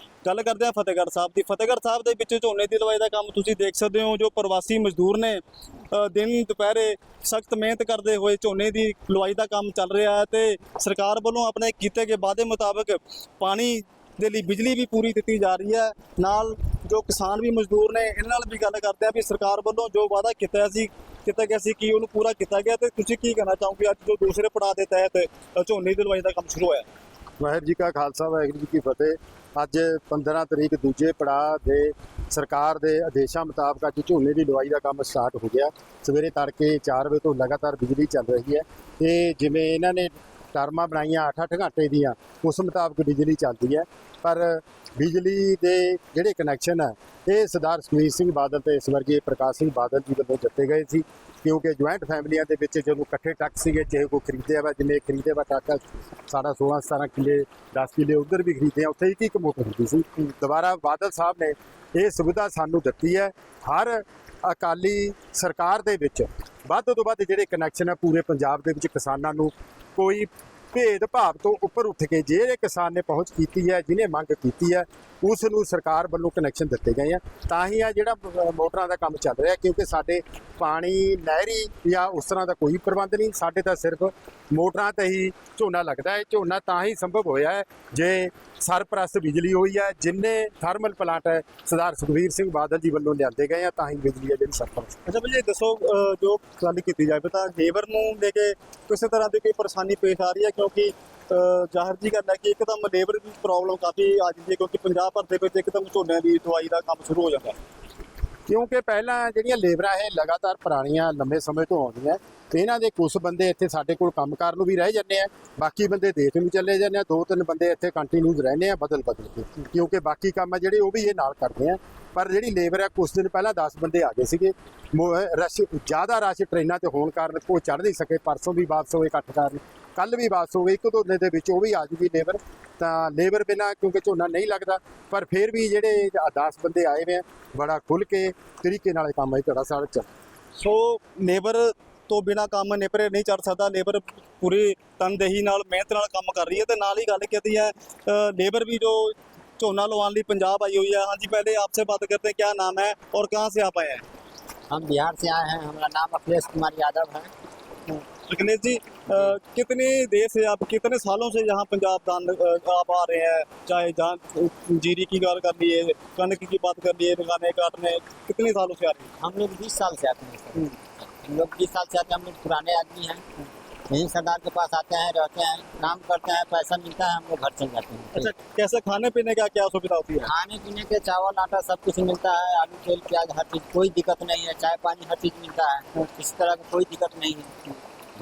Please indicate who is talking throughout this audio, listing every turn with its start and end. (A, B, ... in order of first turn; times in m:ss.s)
0:00.2-0:26.9 A
0:27.4-1:35.0 B
1:35.0-1:47.6 A
1:48.5-2:20.1 B
2:20.6-2:34.0 A
2:34.7-2:37.3 C
2:37.9-2:49.1 A
2:49.2-2:53.2 C
2:53.9-2:58.3 C
2:58.1-3:00.3 A
3:00.2-3:07.8 C